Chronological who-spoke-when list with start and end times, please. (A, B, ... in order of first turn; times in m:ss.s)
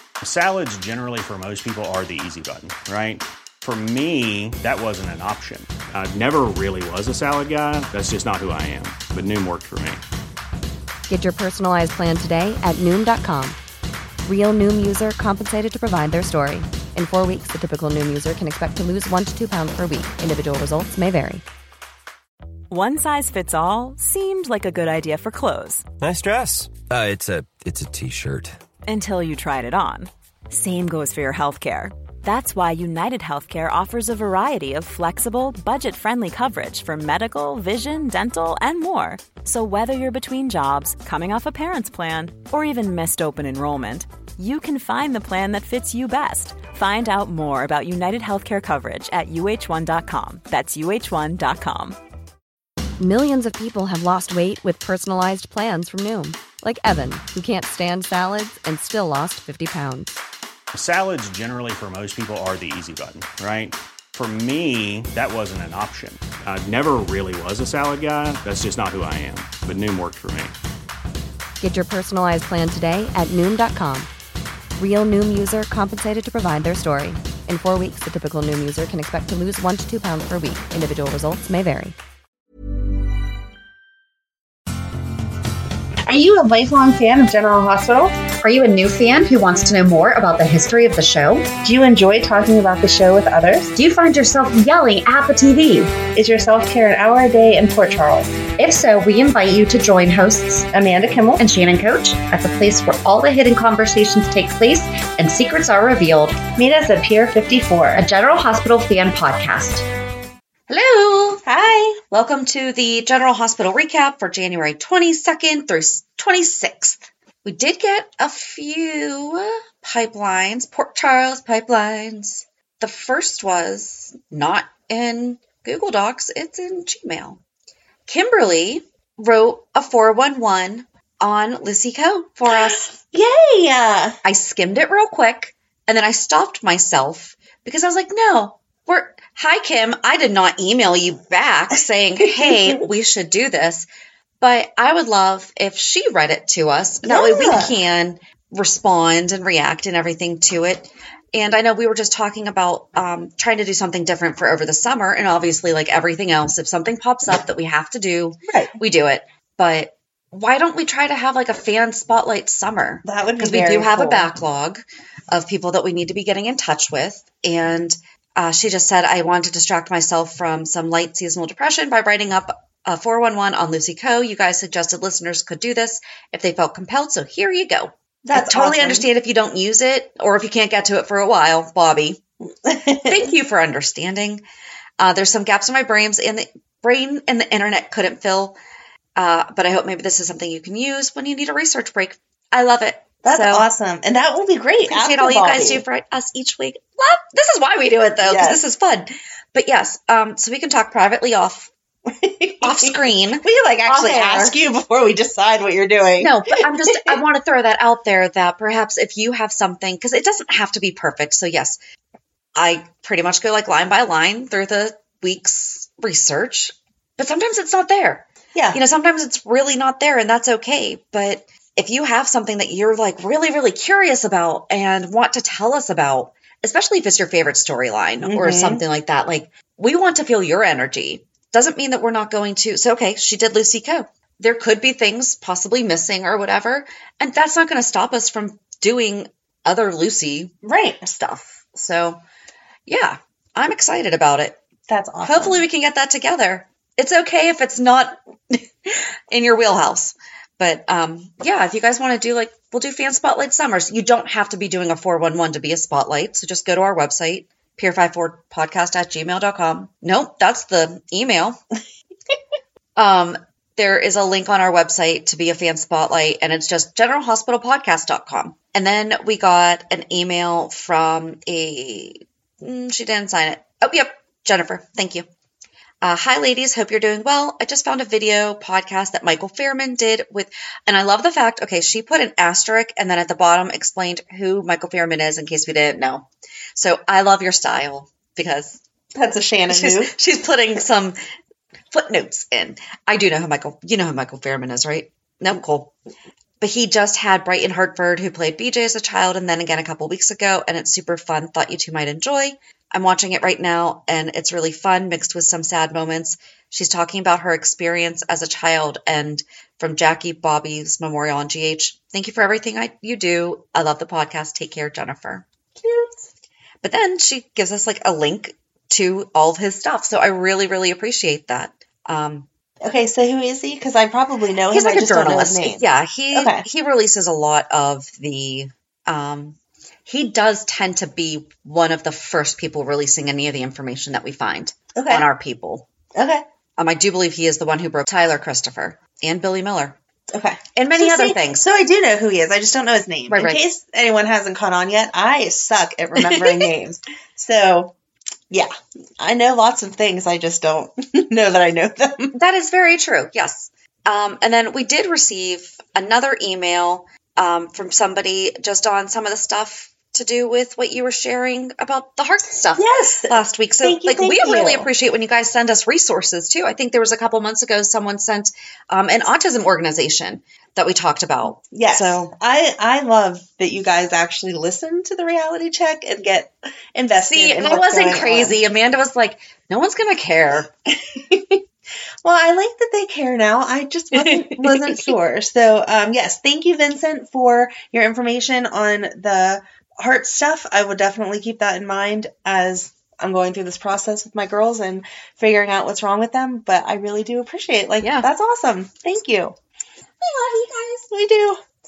0:00.2-0:10.0 A
0:11.1-0:13.6 B
0:14.2-0:21.4 B
0:22.7-0:25.9 C
0:26.0-0:28.6 D
0:28.8-0:52.0 C
0:53.0-1:00.2 B
1:00.7-1:10.5 A
1:11.6-1:14.1 B
1:14.8-1:22.0 B
1:26.0-1:28.2 E
1:28.4-1:31.5 F
1:31.6-1:33.7 E
1:33.8-1:35.9 F
1:36.1-1:38.4 E
1:38.6-1:40.7 F
1:40.7-1:41.4 E
1:41.4-1:46.4 F
1:46.6-1:48.1 E
1:47.9-1:49.9 F
1:50.7-1:51.4 F
1:51.4-1:52.0 E
1:52.1-2:07.4 F
2:08.1-2:12.9 F
2:12.5-2:14.2 E
2:14.2-2:23.9 F
2:22.2-2:22.8 E
2:24.4-3:02.2 F
2:27.0-2:27.7 E
2:38.5-2:38.8 E
2:43.0-2:44.3 E
2:58.2-2:59.1 E
3:02.6-3:03.3 E
3:03.0-3:04.4 F
3:05.0-3:08.6 F
3:09.2-3:13.6 F
3:13.2-3:15.8 E
3:14.9-3:21.7 F
3:18.2-3:18.6 E
3:22.1-3:27.2 E
3:22.6-3:24.6 F
3:26.2-3:31.8 F
3:32.6-4:00.5 F
3:38.5-3:38.8 E
3:48.2-3:48.8 E
4:00.6-4:01.1 E
4:01.0-4:02.2 F
4:02.9-4:04.6 F
4:04.9-4:05.6 E
4:05.2-4:21.6 F
4:23.0-4:35.3 F
4:36.0-4:48.8 F
4:49.2-4:50.1 E
4:49.7-4:51.2 F
4:51.9-4:55.9 F
4:56.6-5:15.5 F
5:15.8-5:16.3 E
5:16.8-5:22.5 F
5:22.8-5:26.6 E
5:24.7-5:35.9 F
5:35.0-5:35.3 E
5:36.2-5:36.4 E
5:36.8-5:40.0 F
5:40.3-5:47.9 E
5:40.8-5:41.7 F
5:43.3-5:43.6 F
5:46.2-5:46.7 F
5:48.5-5:52.4 E
5:52.4-6:12.3 F
6:02.8-6:04.9 E
6:11.7-6:18.6 E
6:17.2-6:20.7 F
6:21.1-6:21.6 E
6:22.2-6:39.6 E
6:24.2-6:25.1 F
6:38.0-6:38.3 F
6:40.2-6:41.6 E